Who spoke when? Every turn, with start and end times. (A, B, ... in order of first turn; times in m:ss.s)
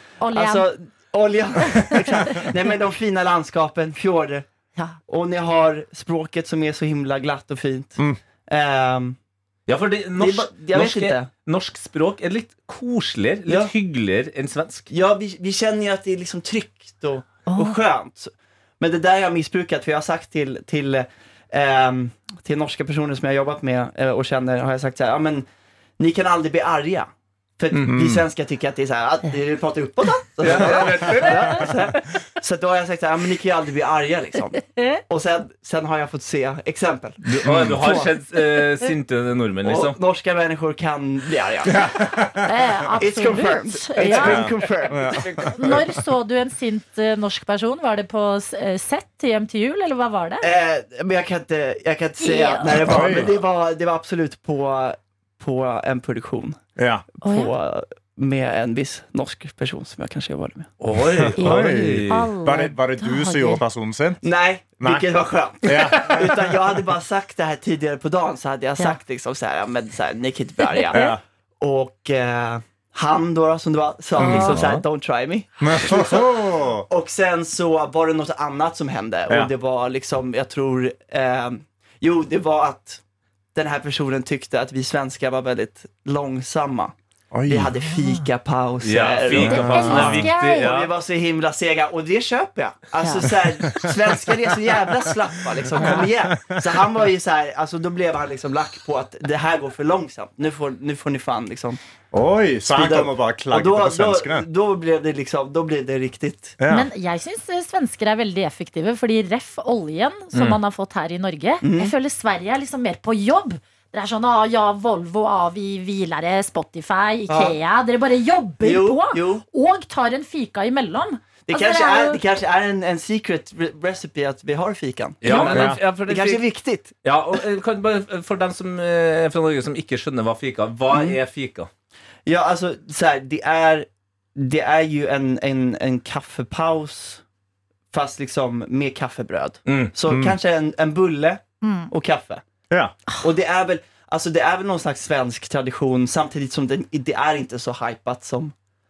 0:00.2-0:00.7 A
0:00.3-0:04.5 B
0:01.9-0:02.4 A
0:05.1-0:09.2 B
0:09.7-0:14.9 C
0:10.2-0:11.3 B
0:13.4-0:13.7 B
0:14.9-0:25.5 B
0:17.5-0:17.8 A
0:26.0-0:38.1 B
0:27.8-0:28.2 D
0:30.4-0:31.8 C
0:30.5-0:31.3 D
0:34.7-0:35.0 A
0:37.3-0:40.0 C
0:37.4-0:37.8 D
0:39.6-0:42.0 B
0:41.7-0:42.5 D
0:42.4-0:44.5 A
0:43.0-0:45.2 B
0:44.1-0:46.0 D
0:45.5-0:50.5 A
0:50.4-0:56.6 B
0:52.2-0:53.0 A
0:52.8-0:53.3 D
0:56.8-0:57.0 D
0:57.2-1:00.7 B
0:57.2-0:57.5 A
1:00.8-1:02.3 C
1:01.1-1:04.2 D
1:01.4-1:03.6 A
1:04.2-1:23.0 B
1:04.8-1:05.1 D
1:05.6-1:06.4 D
1:10.6-1:11.1 A
1:10.9-1:11.2 D
1:14.2-1:14.6 D
1:14.3-1:14.8 C
1:15.6-1:16.8 D
1:23.5-1:26.9 B
1:27.3-1:27.7 D
1:27.5-1:41.8 B
1:28.8-1:30.9 C
1:29.3-1:30.2 D
1:29.7-1:30.7 A
1:33.0-1:33.3 A
1:35.8-1:36.0 A
1:35.8-1:36.6 D
1:42.1-1:44.4 D
1:42.7-1:46.6 B
1:46.6-1:46.9 D
1:46.7-2:02.2 A
1:51.6-1:51.9 B
1:57.3-1:57.6 B
1:58.6-1:59.4 B
2:01.4-2:06.9 B
2:05.2-2:06.5 C
2:05.2-2:05.5 A
2:05.5-2:05.8 D
2:07.0-2:11.7 C
2:10.9-2:11.2 B
2:12.2-2:17.2 B
2:17.9-2:22.4 B
2:19.7-2:19.9 C
2:20.1-2:20.4 D
2:21.6-2:21.9 A
2:22.7-2:23.0 D
2:23.2-2:28.5 B